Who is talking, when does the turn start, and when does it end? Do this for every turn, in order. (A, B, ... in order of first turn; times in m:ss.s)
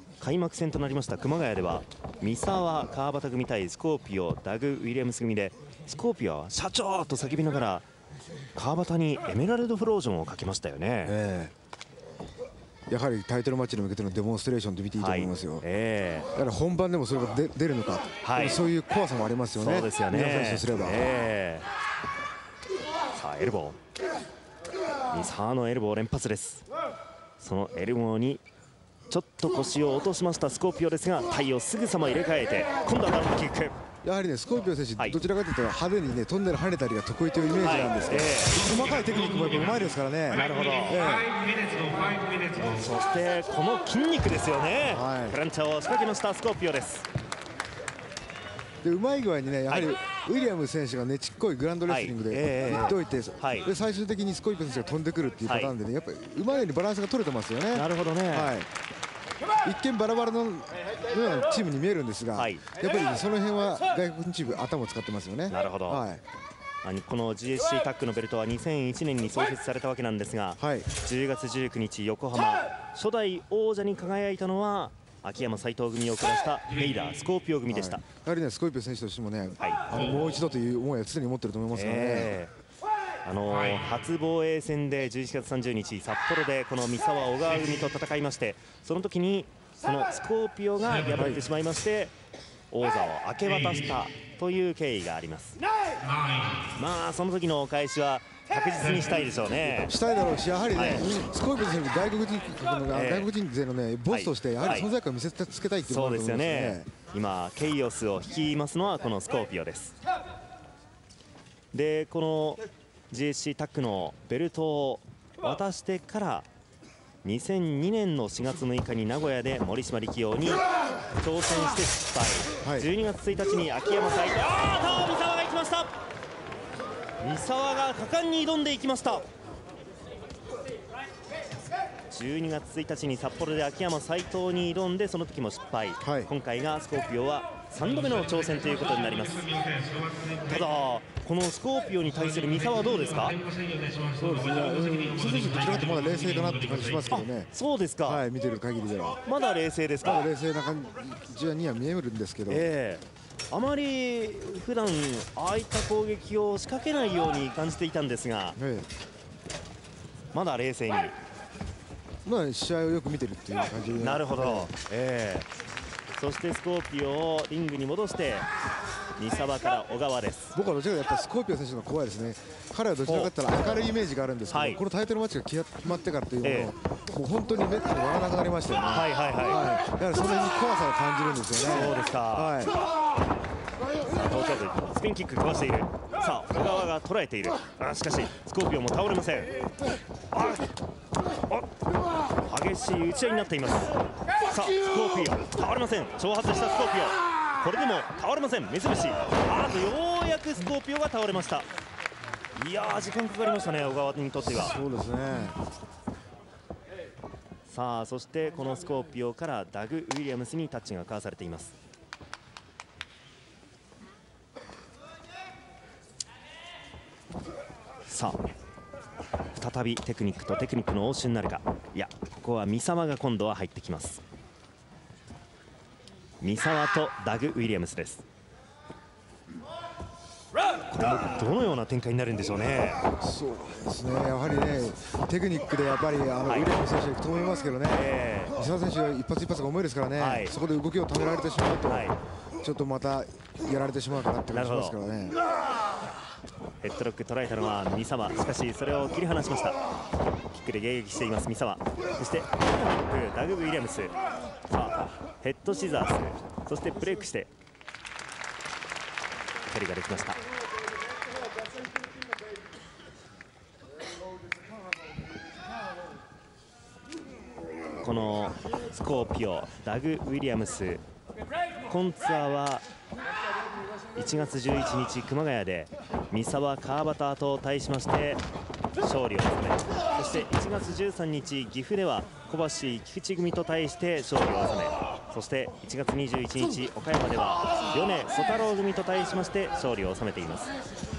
0:00.2-0:07.9 A
0:08.6-0:11.2 A
0:11.0-0:11.5 B
0:12.9-0:15.6 B
0:15.0-0:16.3 A
0:16.4-0:21.0 B
0:18.2-0:18.6 A
0:19.6-0:21.6 A
0:23.1-0:23.8 A
0:25.1-0:26.7 A
0:27.4-0:28.4 A
0:29.1-0:33.8 A
0:34.0-0:41.3 B
0:37.6-0:38.6 A
0:38.8-0:42.8 C
0:40.3-0:41.0 A
0:42.6-0:47.1 A
0:44.9-0:45.4 B
0:48.8-0:58.7 B
0:51.9-0:53.7 A
0:55.4-0:55.7 A
0:57.7-0:58.6 A
0:59.6-1:06.2 B
1:02.4-1:02.6 A
1:05.5-1:06.0 A
1:06.8-1:18.0 A
1:10.6-1:10.9 B
1:17.7-1:22.4 B
1:21.7-1:22.5 A
1:23.2-1:32.1 A
1:32.7-1:35.6 A
1:36.2-1:36.4 C
1:36.8-1:39.9 A
1:39.8-1:46.9 B
1:40.7-1:41.0 A
1:42.9-1:43.3 A
1:44.1-1:44.9 A
1:45.8-1:50.0 A
1:51.7-1:56.5 A
1:57.2-2:00.6 A
2:01.2-2:05.9 A
2:02.6-2:02.9 B
2:07.2-2:09.2 A
2:12.1-2:19.5 A
2:16.0-2:16.3 B
2:19.6-2:20.5 C
2:20.5-2:23.4 A
2:22.9-2:27.1 C
2:24.2-2:27.5 B
2:27.1-2:28.2 A
2:28.0-2:29.2 B
2:29.3-2:30.3 A
2:30.0-2:32.7 B
2:32.5-2:38.6 A
2:38.6-2:38.9 B
2:40.3-2:41.1 A
2:42.2-2:44.7 B
2:44.0-2:45.5 A
2:46.2-2:48.5 A
2:49.2-2:50.6 A
2:50.6-3:02.7 B
2:53.1-2:53.3 A
2:54.5-2:54.8 A
2:56.4-2:56.7 A
2:58.9-2:59.6 A
3:01.6-3:02.5 A
3:04.1-3:09.5 A
3:10.3-3:10.7 A
3:12.4-3:13.9 A
3:14.5-3:21.7 A
3:22.6-3:24.8 A
3:24.5-3:25.6 B
3:27.7-3:31.7 A
3:38.1-3:38.4 A
3:39.6-3:44.2 A
3:46.4-3:48.2 A
3:50.9-3:53.0 A
3:53.2-4:02.1 B
3:56.5-3:56.7 A
3:57.9-3:58.6 A
4:00.2-4:00.5 A
4:01.9-4:02.2 A
4:02.6-4:05.4 B
4:04.5-4:05.0 A
4:06.8-4:09.8 A
4:10.5-4:14.1 A
4:14.7-4:17.5 A
4:19.7-4:20.4 A
4:28.0-4:31.0 A
4:31.9-4:32.8 A
4:34.2-4:38.4 A
4:39.0-4:50.7 A